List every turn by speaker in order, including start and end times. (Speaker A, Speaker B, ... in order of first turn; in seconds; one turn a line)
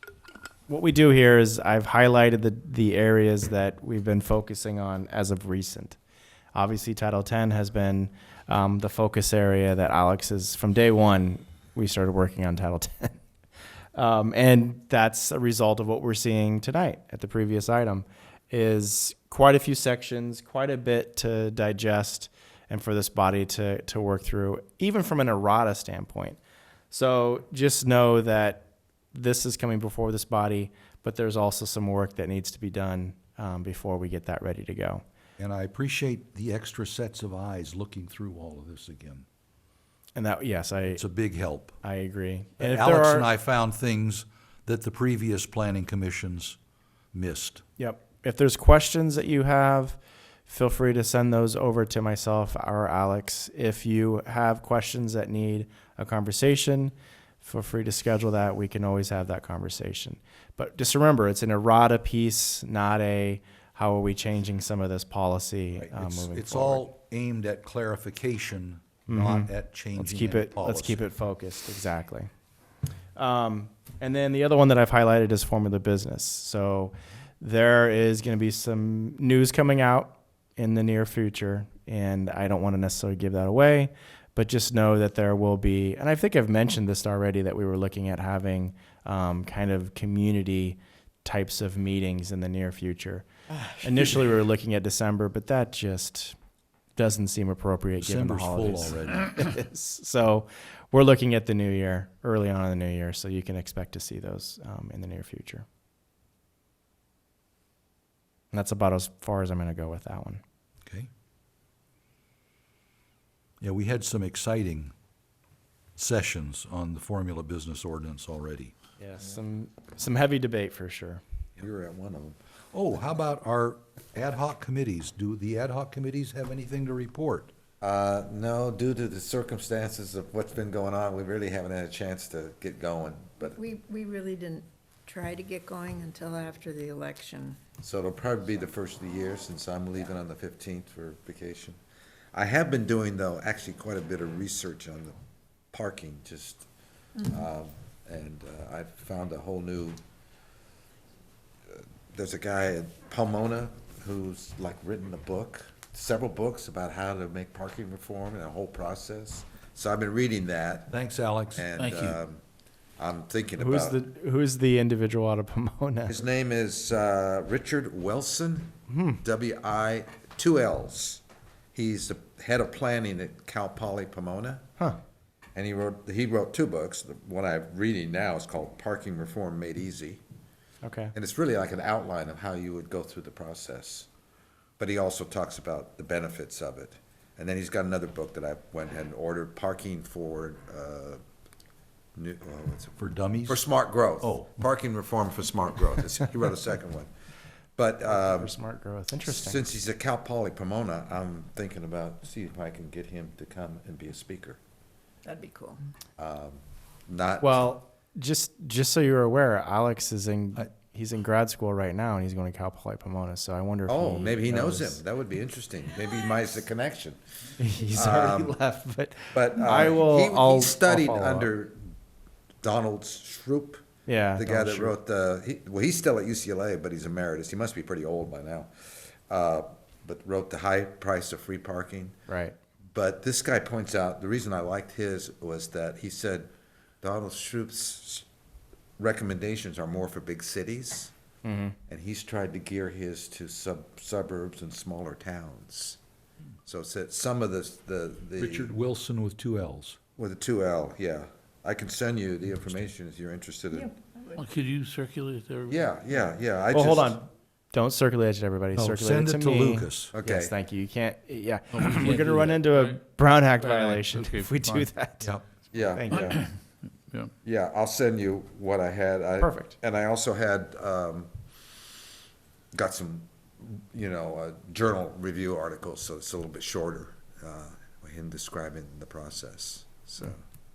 Speaker A: 0.7-6.0
Speaker A: 6.5-13.2
Speaker A: 13.9-26.4
Speaker A: 26.9-35.0
Speaker B: 35.4-39.2
Speaker A: 40.1-41.0
Speaker B: 41.0-41.8
Speaker A: 41.8-43.3
Speaker B: 42.6-46.6
Speaker B: 47.1-47.6
Speaker A: 47.8-66.8
Speaker B: 65.8-71.0
Speaker A: 69.1-72.3
Speaker A: 73.2-93.3
Speaker A: 93.8-96.3
Speaker A: 97.0-105.6
Speaker B: 98.0-99.4
Speaker A: 108.5-110.4
Speaker B: 113.6-114.9
Speaker B: 116.0-118.7
Speaker A: 119.0-121.2
Speaker C: 121.6-122.3
Speaker B: 122.7-127.5
Speaker C: 127.8-133.6
Speaker D: 133.6-137.6
Speaker C: 137.8-141.8
Speaker C: 142.3-145.1
Speaker C: 145.7-146.7
Speaker C: 147.2-150.0
Speaker C: 151.7-160.9
Speaker B: 160.9-162.2
Speaker C: 161.5-162.4
Speaker C: 163.0-164.0
Speaker A: 163.6-166.2
Speaker C: 166.1-171.2
Speaker A: 168.9-169.2
Speaker C: 171.7-174.7
Speaker C: 175.6-180.2
Speaker A: 180.8-181.1
Speaker C: 181.1-184.1
Speaker C: 184.8-191.2
Speaker C: 192.2-197.1
Speaker B: 193.0-193.6
Speaker B: 194.2-194.6
Speaker C: 197.8-198.5
Speaker A: 198.1-199.6
Speaker C: 199.3-204.6
Speaker D: 205.2-205.8
Speaker C: 206.2-207.7
Speaker A: 207.4-215.0
Speaker C: 213.9-217.2
Speaker A: 217.6-221.5
Speaker C: 217.9-218.6
Speaker C: 219.3-221.9
Speaker C: 222.6-223.8
Speaker A: 224.1-224.9
Speaker C: 224.4-228.7
Speaker C: 229.3-232.1
Speaker A: 232.3-232.6
Speaker C: 232.9-236.5
Speaker C: 237.0-238.2
Speaker C: 239.0-241.1
Speaker A: 241.4-241.8
Speaker C: 241.9-246.0
Speaker C: 246.7-248.7
Speaker B: 248.4-250.0
Speaker C: 250.2-253.9
Speaker D: 254.0-254.3
Speaker E: 254.3-255.8
Speaker C: 255.7-257.2
Speaker A: 256.7-265.3
Speaker B: 258.7-260.1
Speaker C: 260.1-260.5
Speaker E: 261.7-263.0
Speaker E: 263.6-264.9
Speaker C: 265.7-266.4
Speaker A: 265.9-266.4
Speaker E: 266.1-266.5
Speaker C: 267.4-271.3
Speaker A: 269.4-269.7
Speaker C: 272.7-280.4